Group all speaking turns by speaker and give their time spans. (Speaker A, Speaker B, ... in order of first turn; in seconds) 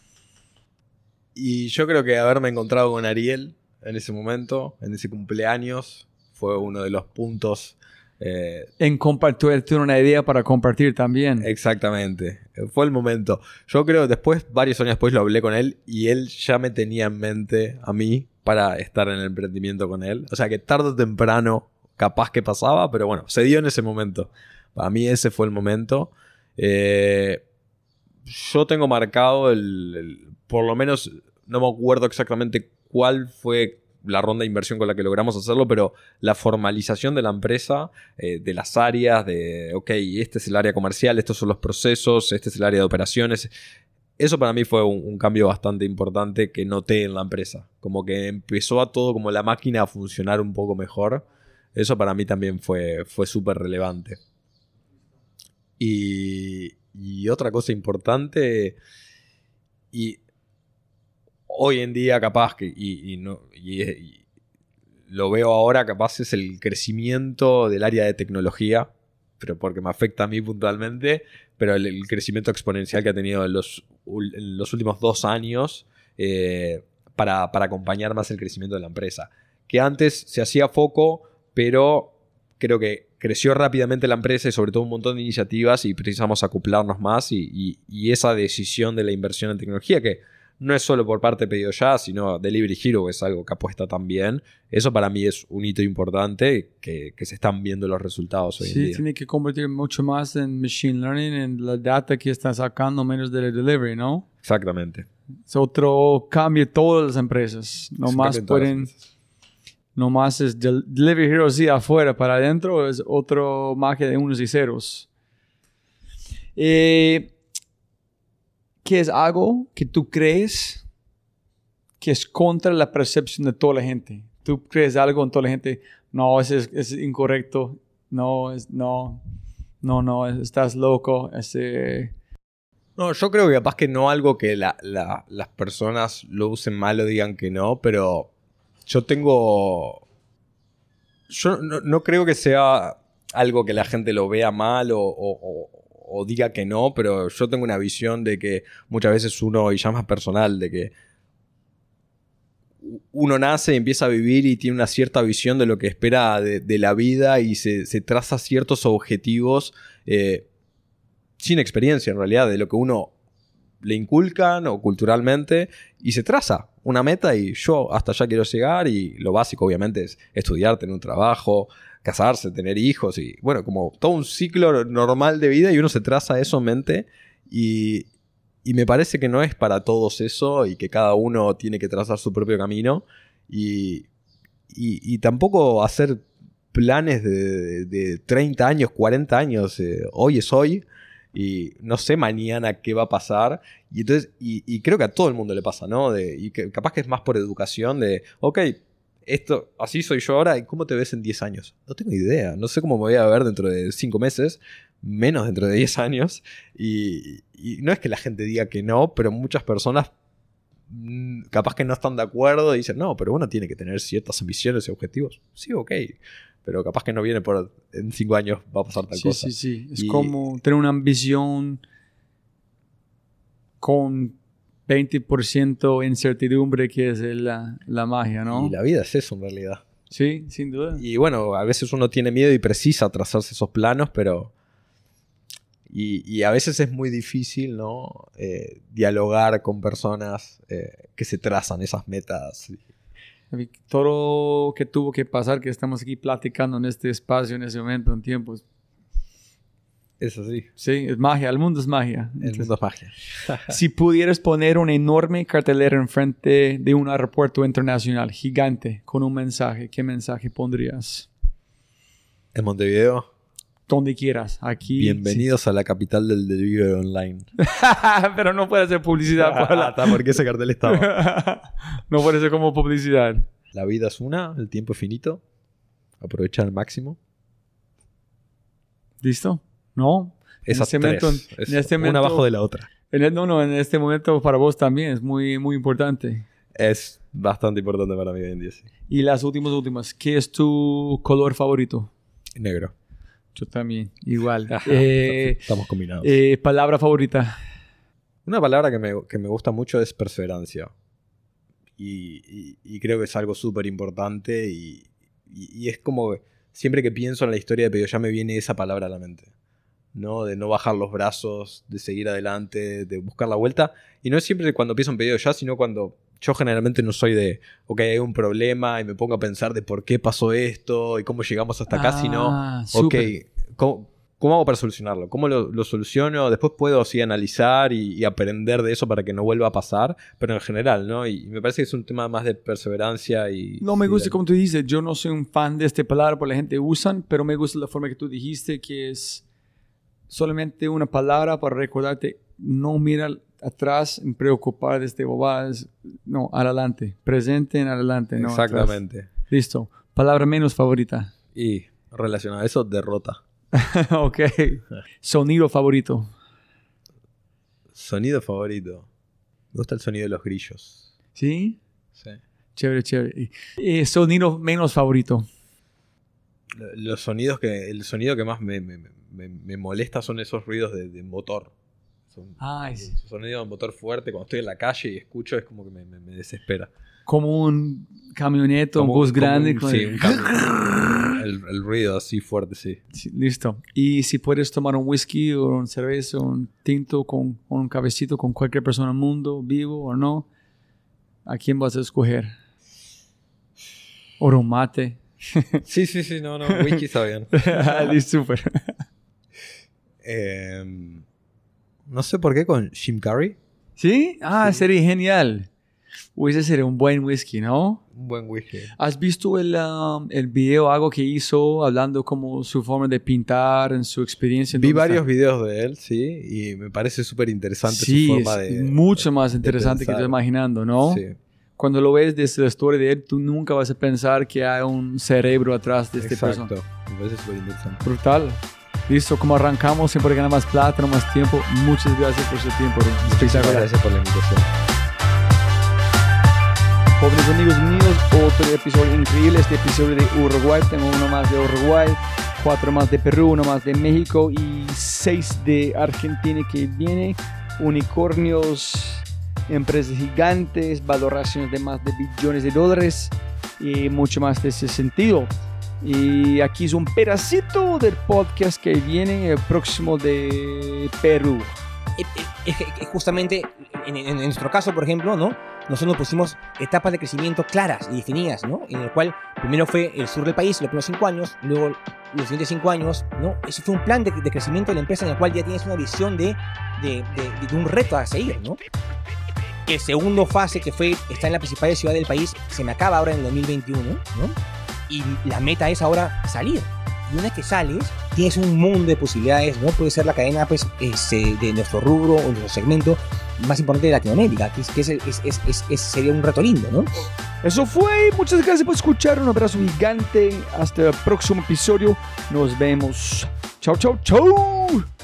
Speaker A: 1.4-8.7, 11.4-27.4, 28.3-43.5, 44.2-54.2, 55.8-58.8, 59.9-60.2, 61.5-64.2, 65.1-99.0, 104.4-105.1, 108.0-109.0, 133.0-138.3, 138.9-140.0, 141.3-150.9, 152.8-160.5, 161.4-163.1, 163.8-178.1, 178.6-184.1, 184.7-210.1, 210.9-220.5, 228.5-229.8, 231.0-234.5, 235.9-242.8, 250.2-250.7, 252.4-253.7, 262.5-263.3, 265.0-267.5, 269.4-271.1, 273.7-275.4, 276.2-277.2, 280.7-282.9, 286.7-288.9, 292.6-292.9, 294.7-296.4, 298.4-300.9, 302.0-309.5, 310.1-334.4, 348.4-349.3, 351.6-353.4, 357.9-359.1, 359.7-361.1, 362.2-362.4, 366.7-371.7, 372.3-376.9, 379.0-383.0, 395.9-398.1, 400.2-401.2, 402.1-403.6, 408.1-408.9, 414.7-420.4, 421.1-421.4, 426.2-428.1, 433.2-434.7
Speaker B: 8.8-11.5, 98.6-104.3, 105.5-108.9, 110.0-115.1, 116.6-117.3, 118.8-120.8, 122.0-129.2, 129.8-132.1, 219.1-221.8, 223.8-228.7, 230.1-231.0, 243.5-248.6, 250.8-252.7, 253.7-261.3, 263.9-265.5, 267.6-270.2, 270.9-273.4, 279.2-282.4, 283.1-286.5, 289.1-292.1, 293.6-295.6, 296.2-297.6, 321.9-323.3, 333.8-339.4, 340.3-351.3, 353.7-356.3, 361.4-361.8, 362.8-365.5, 372.6-373.1, 377.3-381.4, 383.1-390.5, 391.5-392.5, 394.4-395.8, 396.7-397.0, 397.5-398.9, 404.0-405.7, 406.4-408.0, 409.0-415.2, 417.9-421.2, 421.8-426.7, 428.0-433.9, 437.2-461.8, 497.6-505.1
Speaker C: 462.2-478.8, 479.9-484.6, 485.1-497.3